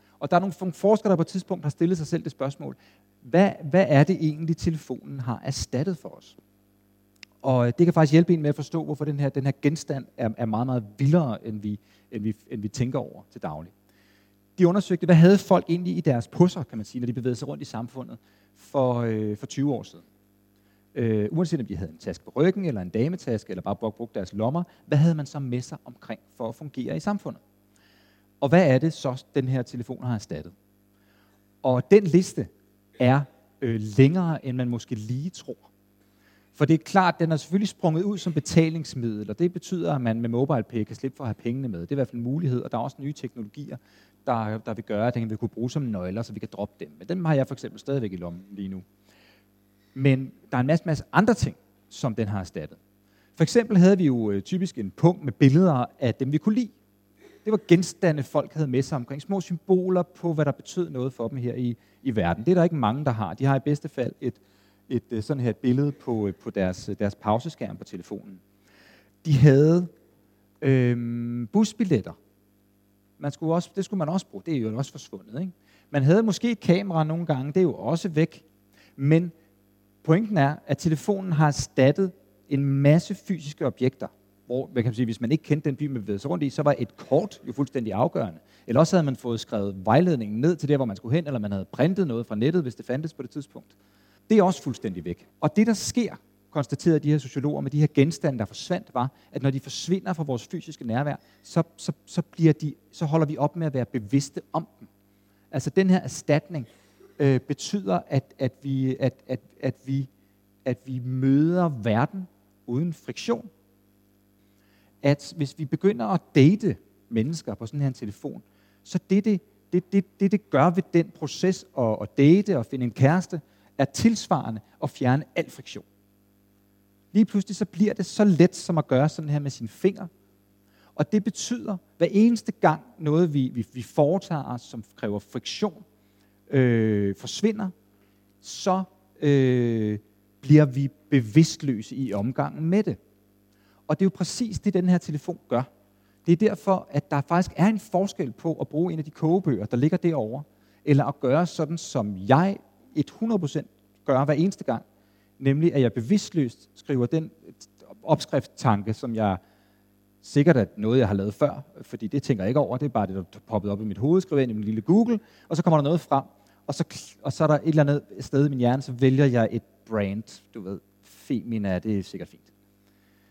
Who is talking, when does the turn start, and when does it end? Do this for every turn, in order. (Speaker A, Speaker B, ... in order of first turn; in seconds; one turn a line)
Speaker A: 0.2-6.4
Speaker A: 7.4-13.7
Speaker A: 14.6-20.0
Speaker A: 20.9-27.4
Speaker A: 28.4-30.5
Speaker A: 31.6-35.7
Speaker A: 36.6-48.8
Speaker A: 50.0-52.8
Speaker A: 53.4-56.7
Speaker A: 57.5-68.4
Speaker A: 69.2-69.9
Speaker A: 70.6-72.2
Speaker A: 73.2-78.4
Speaker A: 79.0-79.3
Speaker A: 80.0-93.7
Speaker A: 94.3-104.9
Speaker A: 105.5-106.7
Speaker A: 107.2-110.1
Speaker A: 110.7-113.5
Speaker A: 115.0-125.8
Speaker A: 127.1-130.1
Speaker A: 131.0-135.8
Speaker A: 136.5-137.7
Speaker A: 138.4-143.0
Speaker A: 143.9-145.7
Speaker A: 146.3-154.8
Speaker A: 155.4-159.4
Speaker A: 160.2-172.5